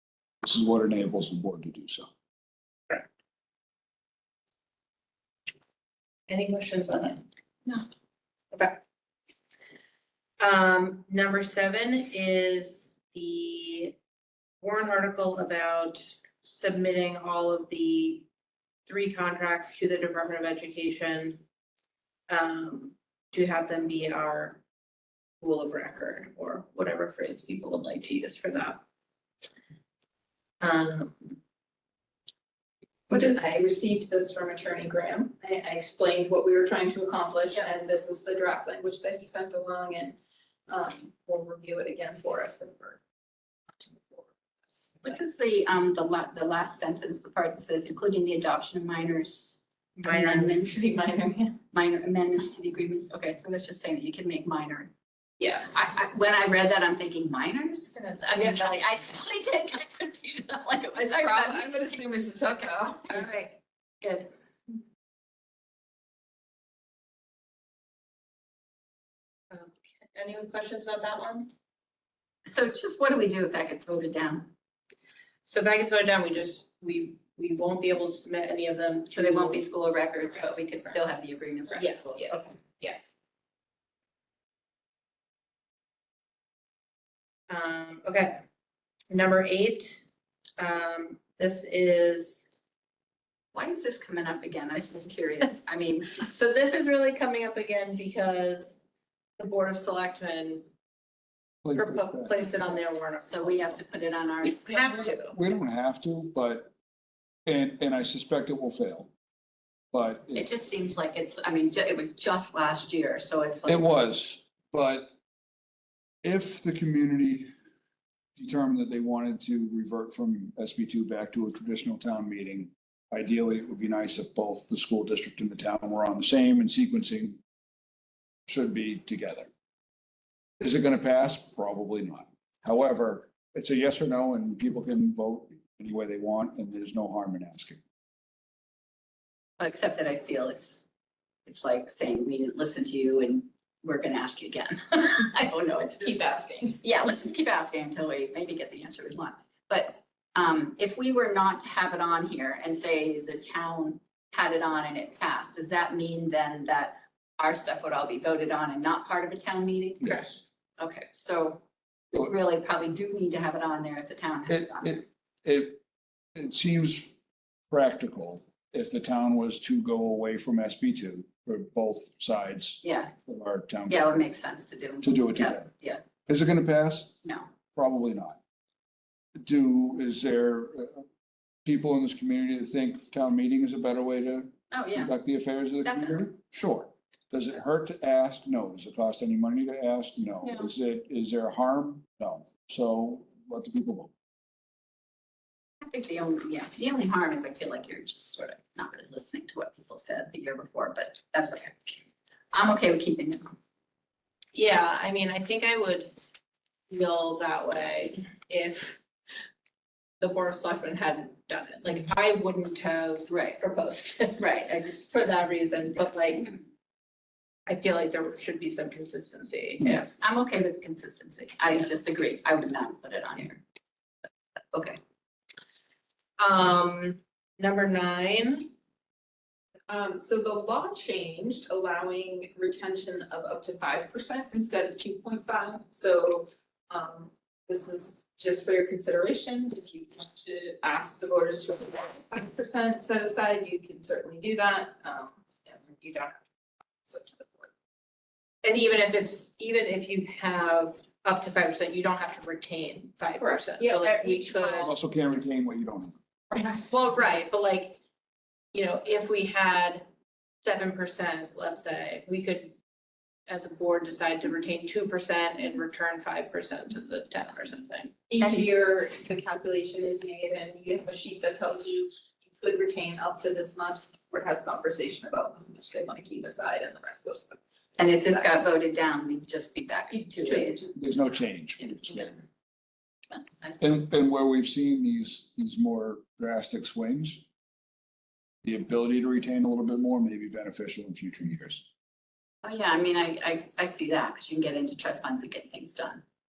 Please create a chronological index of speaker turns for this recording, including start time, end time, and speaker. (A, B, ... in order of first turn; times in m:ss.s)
0:00.4-0:02.1 A
0:06.3-0:07.2 B
0:08.5-0:08.8 B
0:10.4-0:14.0 B
0:14.6-0:18.2 B
0:18.9-0:21.4 B
0:22.3-0:24.6 B
0:25.4-0:28.8 B
0:30.6-0:31.4 B
0:33.1-0:40.2 C
0:40.7-0:43.0 C
0:43.8-0:45.2 C
0:45.0-0:51.0 D
0:50.0-0:51.6 B
0:51.6-0:54.9 D
0:55.7-1:04.3 D
0:58.0-0:58.8 B
1:00.9-1:03.3 C
1:09.5-1:11.5 B
1:12.5-1:14.5 D
1:15.4-1:19.7 B
1:19.1-1:22.6 D
1:20.3-1:21.0 B
1:21.7-1:23.0 B
1:27.5-1:28.4 B
1:29.1-1:30.0 B
1:30.6-1:32.5 B
1:33.5-1:36.2 D
1:36.2-1:38.8 B
1:39.4-1:40.7 B
1:41.6-1:42.4 A
1:41.8-1:43.8 B
1:43.2-1:45.1 D
1:44.4-1:45.4 B
1:45.1-1:46.7 A
1:47.5-1:49.1 A
1:49.9-1:50.5 A
1:50.3-1:53.9 D
1:53.7-1:55.1 A
1:56.2-1:57.5 A
1:58.4-2:07.4 A
2:08.5-2:09.5 A
2:10.6-2:17.8 A
2:19.6-2:20.8 D
2:21.5-2:26.2 D
2:26.0-2:26.8 C
2:26.8-2:45.0 D
2:44.5-2:45.8 A
2:46.4-2:47.1 A
2:47.7-2:54.2 A
2:52.8-2:53.1 D
2:53.9-2:56.0 D
2:55.0-2:55.7 A
2:56.3-2:57.2 A
2:57.2-2:57.5 D
2:57.7-2:58.4 A
2:59.4-3:01.1 A
3:01.6-3:14.1 A
3:04.7-3:05.1 D
3:05.8-3:06.2 D
3:15.8-3:21.9 D
3:22.5-3:23.5 D
3:24.5-3:26.2 B
3:26.9-3:29.0 B
3:30.2-3:36.5 B
3:33.3-3:33.6 D
3:34.4-3:35.2 D
3:37.7-3:40.1 B
3:39.8-3:43.6 D
3:44.7-3:45.0 D
3:46.4-3:48.7 B
3:49.9-4:06.4 C
4:07.0-4:07.7 C
4:08.6-4:14.9 B
4:13.4-4:14.9 C
4:14.8-4:16.2 A
4:16.5-4:16.8 C
4:16.8-4:18.0 B
4:18.7-4:20.1 B
4:20.6-4:22.8 B
4:23.5-4:28.2 B
4:28.3-4:37.6 C
4:38.0-4:40.9 D
4:38.2-4:38.5 C
4:40.1-4:40.9 C
4:41.0-4:42.3 A
4:41.8-4:42.4 D
4:43.4-4:43.8 D
4:43.8-4:47.4 A
4:48.6-4:51.9 A
4:52.6-4:56.2 D